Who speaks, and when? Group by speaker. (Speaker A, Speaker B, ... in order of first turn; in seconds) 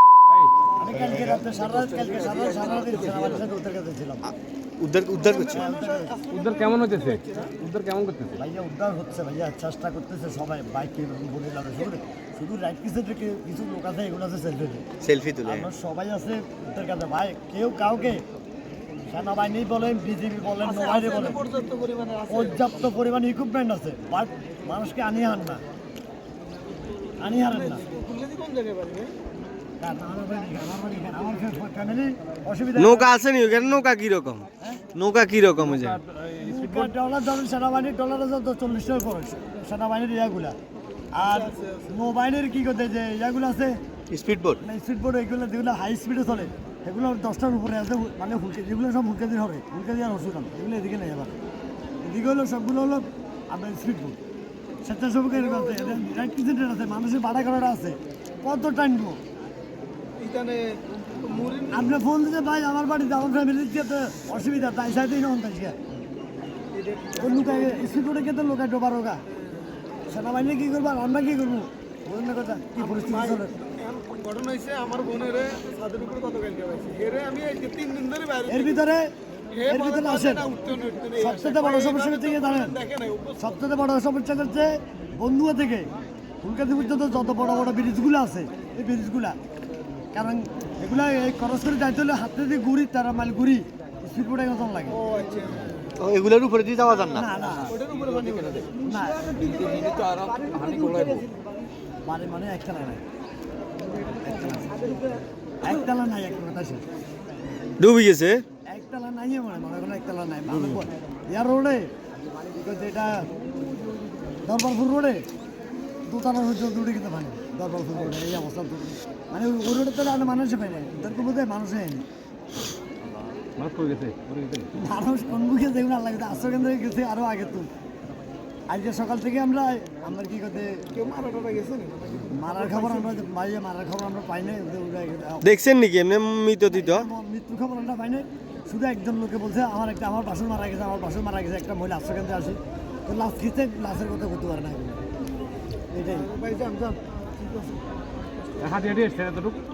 Speaker A: 0.8-4.2, 5.5-6.2, 8.3-14.9, 15.4-18.2, 19.1-21.5, 22.3-25.6, 27.2-27.9, 29.8-33.1, 36.4-40.6, 41.1-43.8, 44.6-51.4, 52.0-54.2, 54.8-59.2, 61.7-65.8, 67.2-69.2, 70.1-73.6, 78.5-79.1, 79.6-80.5, 81.2-82.8, 83.4-85.9, 86.4-89.4, 90.1-95.0, 97.1-97.8, 98.8-99.5, 102.0-103.0, 104.4-104.7, 105.6-106.8, 108.7-111.9, 112.5-113.3, 114.4-115.2, 116.0-122.1, 124.7-127.7, 128.7-130.9, 132.2-135.5, 136.7-145.0, 145.9-146.3
Speaker B: 0.9-3.5, 4.3-5.6, 15.0-15.7, 32.8-36.0, 44.1-44.6, 96.0-97.6, 107.8-108.4, 110.5-110.8, 135.4-137.1
Speaker C: 5.2-7.5, 20.6-22.7, 27.5-29.1, 41.3-41.9, 55.4-56.0, 60.2-61.9, 66.7-67.9, 72.8-78.8, 79.5-83.4, 94.9-95.8, 97.7-101.4, 103.8-105.2, 130.9-133.1, 146.2-147.8
Speaker D: 6.3-8.4, 35.6-36.9, 97.8-98.7, 99.4-101.3, 123.6-124.7, 148.6-149.6